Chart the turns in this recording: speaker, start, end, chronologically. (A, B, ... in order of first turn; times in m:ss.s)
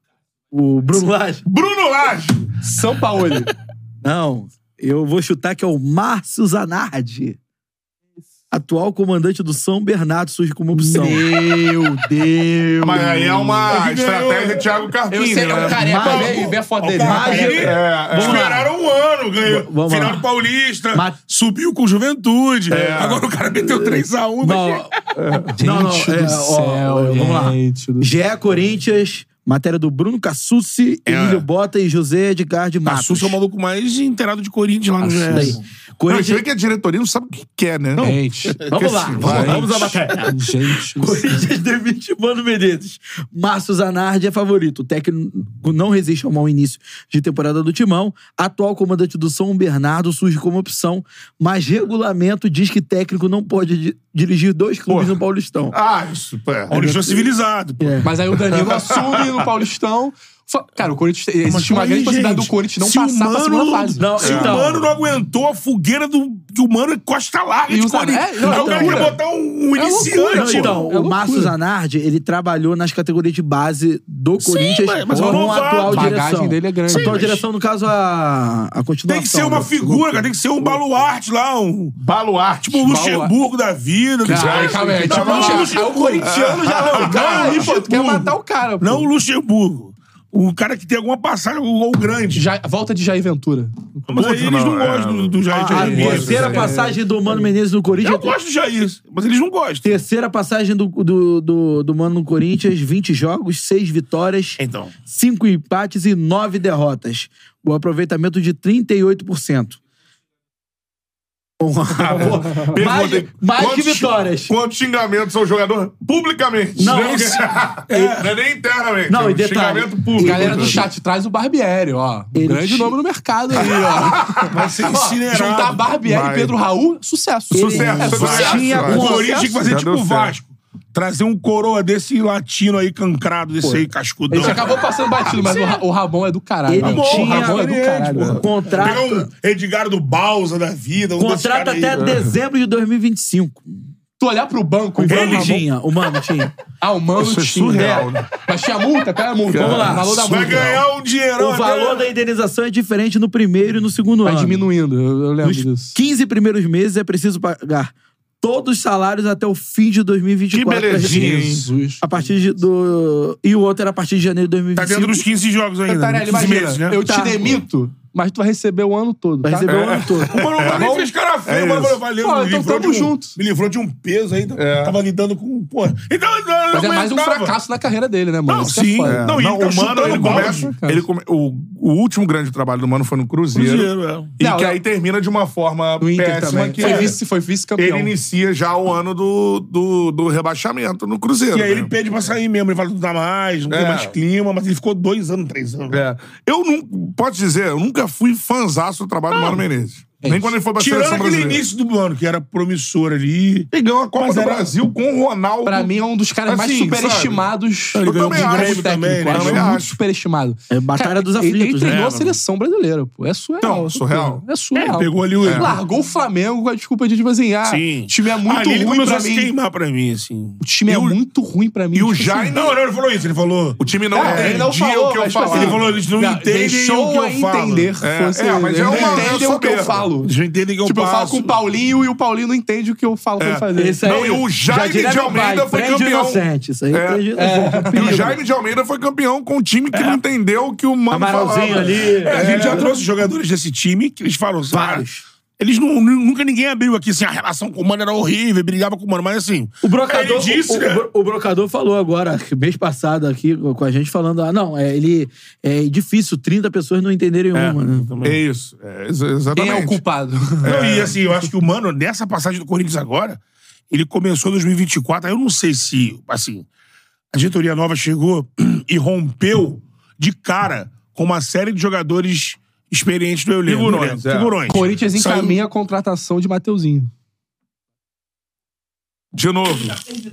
0:00.5-0:01.4 A
0:01.4-0:02.6 B
0:02.6-0:03.5 C
0:04.0-0:07.4 A
0:08.5-0:13.0 A
0:10.7-0:13.7 C
0:12.8-0:16.1 B
0:13.6-0:14.7 D
0:15.1-0:17.6 C
0:15.6-0:18.7 A
0:15.9-0:24.9 D
0:17.5-0:18.5 B
0:19.4-0:20.2 A
0:20.9-0:21.2 A
0:22.7-0:23.3 B
0:23.6-0:24.9 A
0:25.1-0:25.6 B
0:25.6-0:28.1 C
0:25.6-0:33.4 A
0:31.0-0:31.4 D
0:32.8-0:35.6 D
0:35.0-0:35.6 C
0:35.3-0:36.4 A
0:36.1-0:38.2 B
0:38.0-0:40.3 D
0:38.0-0:38.6 C
0:38.7-0:40.3 A
0:38.7-0:39.8 B
0:39.2-0:41.4 C
0:41.0-0:55.8 A
0:54.9-0:55.2 B
0:55.7-0:57.3 B
0:56.7-0:58.1 D
0:57.8-0:58.1 A
0:58.0-1:04.1 C
0:58.5-0:59.4 B
1:01.4-1:10.8 D
1:04.0-1:04.9 A
1:04.2-1:04.5 B
1:07.7-1:09.2 C
1:08.5-1:09.1 A
1:09.7-1:11.5 C
1:10.3-1:20.8 A
1:14.4-1:16.2 D
1:15.1-1:17.4 C
1:16.9-1:17.3 D
1:19.1-1:22.0 D
1:22.0-1:23.0 B
1:22.6-1:32.4 D
1:22.8-1:23.3 C
1:24.2-1:29.1 C
1:24.2-1:27.8 B
1:32.3-1:34.1 C
1:34.1-1:36.7 D
1:34.1-1:36.6 B
1:35.5-1:38.4 A
1:35.7-1:37.1 C
1:38.0-1:39.9 D
1:39.8-1:49.8 A
1:44.6-1:44.9 D
1:51.6-1:54.5 A
1:52.1-2:00.8 B
1:56.8-1:57.4 A
1:56.8-1:58.3 D
1:59.1-2:00.9 A
2:00.2-2:09.5 C
2:02.3-2:03.0 A
2:04.2-2:04.7 B
2:04.5-2:05.9 D
2:06.0-2:06.6 B
2:07.5-2:09.7 A
2:07.5-2:10.3 B
2:08.2-2:15.7 D
2:13.6-2:18.4 C
2:16.7-2:17.7 A
2:16.8-2:22.1 D
2:18.3-2:19.3 A
2:21.2-2:23.8 A
2:21.9-2:22.3 B
2:24.2-2:25.7 C
2:25.0-2:26.5 A
2:25.1-2:25.6 D
2:26.8-2:30.8 C
2:27.2-2:28.3 B
2:27.7-2:28.1 A
2:29.5-2:30.5 B
2:29.5-2:30.2 A
2:30.2-2:32.1 D
2:31.4-2:34.6 A
2:34.2-2:36.0 C
2:35.4-2:41.4 A
2:40.5-2:41.7 B
2:41.0-2:41.5 D
2:41.2-2:42.3 C
2:42.0-2:45.2 A
2:44.7-2:47.0 D
2:45.9-2:49.7 C
2:47.0-2:47.6 A
2:49.4-2:50.5 A
2:49.6-2:50.9 B
2:50.2-2:57.6 D
2:50.6-2:51.1 C
2:51.4-2:52.0 B
2:52.2-2:53.4 C
2:54.5-2:55.0 B
2:56.7-2:59.3 C
2:58.5-3:00.7 D
2:59.0-3:07.2 B
3:00.0-3:01.1 C
3:03.5-3:04.3 D
3:04.4-3:04.8 C
3:06.0-3:08.1 C
3:06.8-3:07.1 D
3:07.8-3:11.9 B
3:11.5-3:16.0 D
3:13.7-3:14.1 B
3:15.9-3:21.6 B
3:19.3-3:19.6 D
3:20.2-3:20.6 C
3:20.8-3:24.7 D
3:23.7-3:25.9 B
3:25.6-3:39.5 C
3:26.5-3:27.4 B
3:28.0-3:29.7 D
3:28.0-3:30.0 B
3:30.7-3:32.0 A
3:31.8-3:32.4 D
3:33.6-3:34.4 B
3:34.7-3:35.8 D
3:35.4-3:35.8 B
3:37.6-3:40.6 D
3:40.6-3:42.5 C
3:40.9-3:41.2 B
3:41.9-3:42.8 B
3:42.5-3:44.7 D
3:43.8-3:46.0 B
3:44.1-3:50.3 C
3:45.4-3:47.9 D
3:48.0-3:50.1 B
3:48.8-3:49.4 D
3:50.2-3:51.5 D
3:50.8-3:54.1 C
3:53.4-3:57.3 B
3:53.7-3:58.4 A
3:57.3-3:58.3 C
3:57.9-4:02.9 B
3:59.9-4:00.2 D
4:01.1-4:02.9 A
4:01.9-4:05.1 D
4:04.7-4:05.2 A
4:05.6-4:11.0 D
4:09.8-4:18.1 A
4:17.5-4:18.4 D
4:18.2-4:20.0 B
4:19.5-4:20.8 C
4:20.6-4:21.1 B
4:20.6-4:26.7 D
4:27.3-4:35.6 D
4:33.6-4:34.6 B
4:34.7-4:37.1 C
4:39.3-4:40.0 B